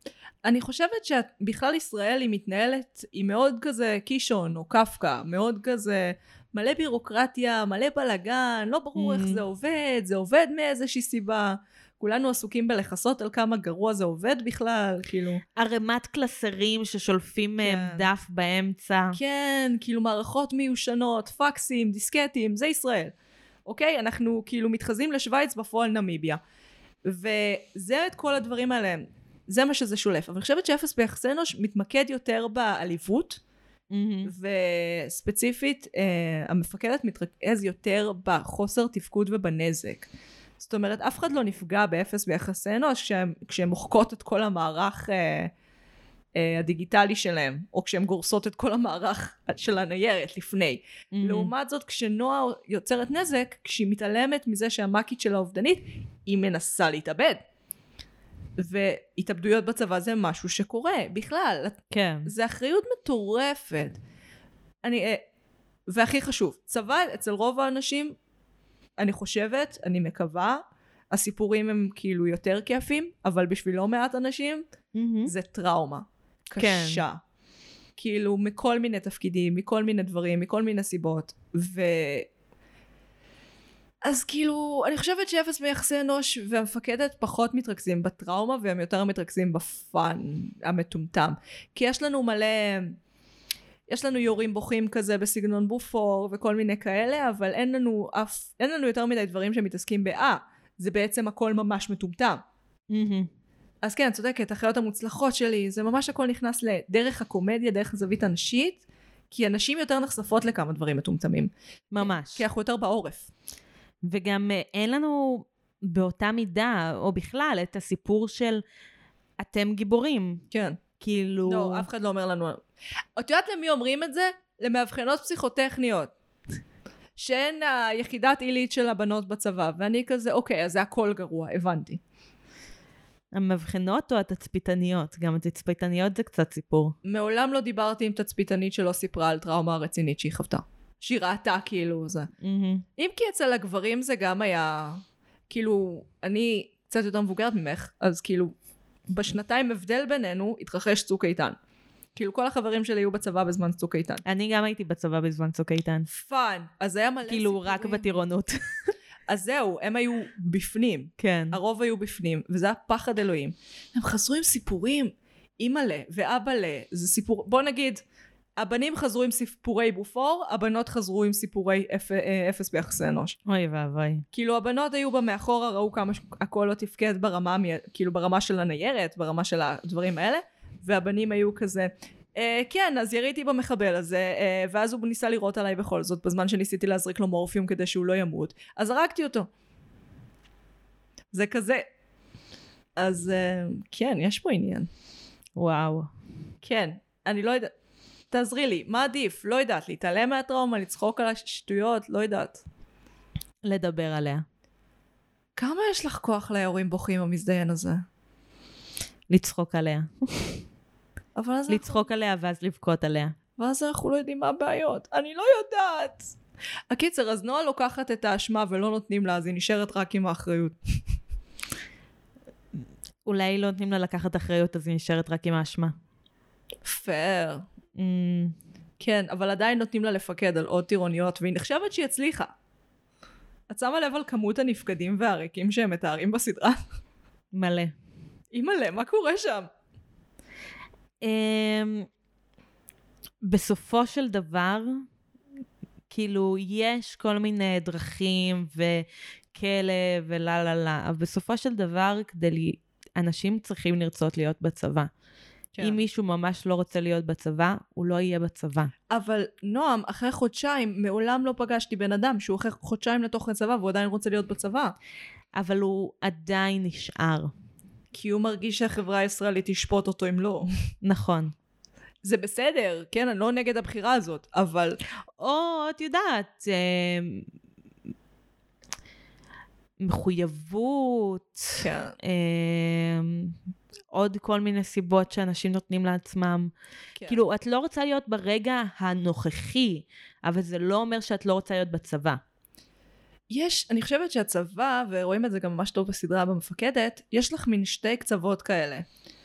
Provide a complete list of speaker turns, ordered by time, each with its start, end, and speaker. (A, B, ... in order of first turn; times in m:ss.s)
0:00.4-0:15.4 A
0:09.0-0:09.4 B
0:15.6-0:19.2 B
0:17.6-0:18.1 A
0:19.1-0:23.1 A
0:23.6-0:26.4 A
0:27.0-0:33.4 A
0:33.9-0:34.3 B
0:34.2-0:40.1 A
0:40.6-0:45.5 A
0:46.4-0:57.4 A
0:51.1-0:51.5 B
0:58.6-1:04.0 A
1:01.9-1:02.3 B
1:04.8-1:05.2 A
1:05.9-1:08.1 A
1:09.0-1:14.6 A
1:14.9-1:15.3 B
1:15.2-1:17.2 A
1:16.6-1:17.0 B
1:18.0-1:22.3 A
1:24.0-1:33.0 A
1:33.9-1:42.4 A
1:42.9-1:43.3 B
1:43.8-1:53.3 A
1:51.9-1:52.4 B
1:54.0-1:58.6 B
1:59.4-2:00.4 B
2:00.5-2:00.8 A
2:01.0-2:01.9 B
2:01.4-2:02.6 A
2:03.2-2:06.1 A
2:07.2-2:12.0 A
2:13.3-2:16.9 B
2:17.0-2:22.3 A
2:22.4-2:22.8 B
2:23.0-2:28.5 A
2:29.1-2:31.6 A
2:32.2-2:34.2 A
2:34.2-2:36.1 B
2:36.1-2:38.1 A
2:37.3-2:38.6 B
2:39.3-2:48.0 A
2:41.2-2:41.6 B
2:48.6-2:53.4 A
2:53.4-2:54.2 B
2:54.3-3:09.5 A
3:11.3-3:11.8 A
3:13.0-3:14.9 A
3:15.6-3:16.1 B
3:16.6-3:17.7 A
3:18.3-3:22.6 A
3:23.6-3:24.4 B
3:25.6-3:28.0 A
3:29.3-3:30.6 B
3:31.4-3:32.0 A
3:31.7-3:33.4 B
3:33.6-3:36.3 A
3:36.9-3:40.8 A
3:43.2-3:45.9 B
3:46.8-3:47.6 A
3:48.0-3:48.5 B
3:49.0-3:52.5 A
3:53.7-3:56.8 A
3:57.5-3:57.9 B
3:58.5-3:59.7 A
4:01.2-4:02.1 B
4:03.4-4:05.0 B
4:06.1-4:15.1 B
4:15.7-4:16.0 A
4:15.8-4:18.9 B
4:19.1-4:24.9 A
4:25.5-4:27.5 B
4:28.1-4:30.7 A
4:31.0-4:31.5 B
4:32.2-4:35.0 A
4:35.4-4:37.4 B
4:40.0-4:43.5 B
4:41.8-4:42.1 A
4:44.1-4:46.7 B
4:47.2-4:52.4 B
4:53.5-4:59.0 A